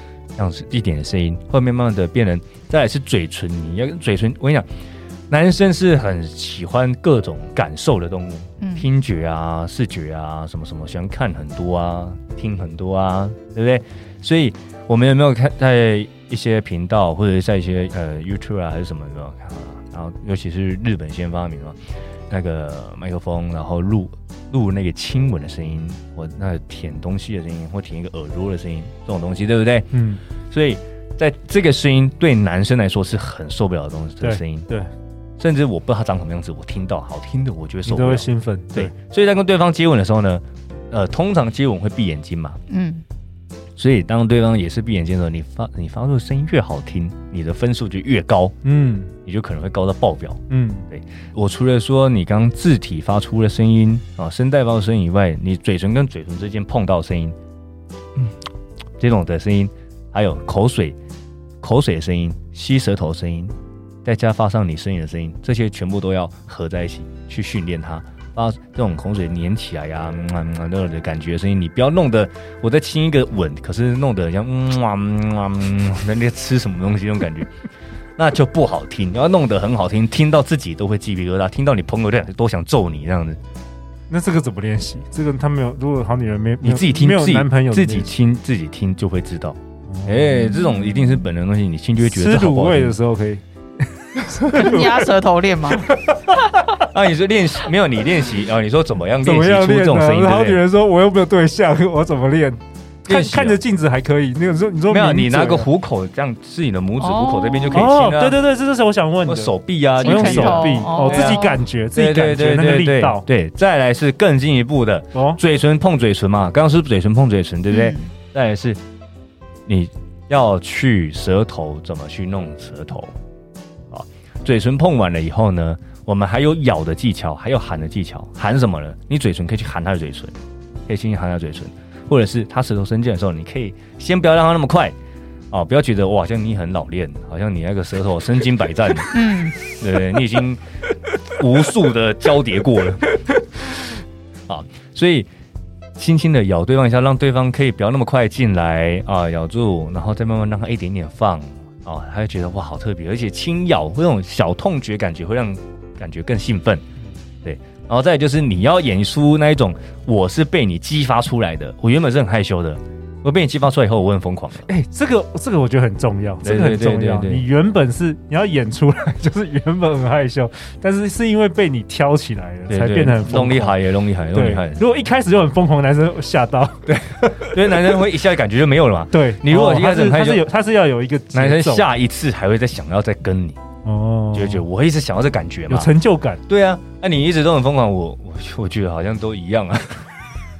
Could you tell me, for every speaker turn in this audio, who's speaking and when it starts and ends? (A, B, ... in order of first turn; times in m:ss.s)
0:00.4-0:04.7 A
0:05.3-0:21.8 A
0:08.6-0:08.9 B
0:22.3-0:29.9 A
0:29.9-0:30.2 C
0:30.5-0:34.6 A
0:34.2-0:34.9 C
0:35.4-0:42.6 A
0:37.8-0:38.9 C
0:42.7-0:43.0 B
0:43.8-0:48.5 A
0:48.6-0:49.1 C
0:49.2-0:57.4 A
0:50.5-0:50.9 C
0:59.0-1:01.0 A
1:01.6-1:03.5 A
1:04.0-1:17.5 A
1:18.2-1:23.4 A
1:24.1-1:28.1 C
1:26.6-1:33.0 A
1:29.9-1:30.2 C
1:30.5-1:31.2 B
1:32.0-1:33.4 C
1:34.1-1:35.1 C
1:34.4-1:35.9 B
1:35.7-1:36.4 C
1:36.8-1:40.6 A
1:39.2-1:45.7 C
1:43.0-1:43.6 A
1:44.9-1:48.4 A
1:47.0-1:47.9 B
1:47.7-1:53.2 C
1:49.2-1:58.8 A
1:50.0-1:51.6 B
1:57.7-1:58.1 B
1:59.7-2:03.1 A
2:03.9-2:10.4 A
2:10.9-2:14.9 A
2:15.5-2:19.1 A
2:19.1-2:19.6 B
2:19.8-2:20.6 A
2:21.3-2:23.8 A
2:24.5-2:25.3 A
2:26.0-2:36.8 A
2:37.4-2:44.6 A
2:44.7-2:53.8 C
2:46.4-2:47.4 A
2:52.7-2:54.8 A
2:54.3-2:57.9 C
2:56.8-3:00.4 A
2:59.1-3:01.9 C
3:01.3-3:03.6 A
3:03.8-3:04.6 C
3:04.3-3:05.9 A
3:05.7-3:06.4 C
3:06.5-3:10.1 A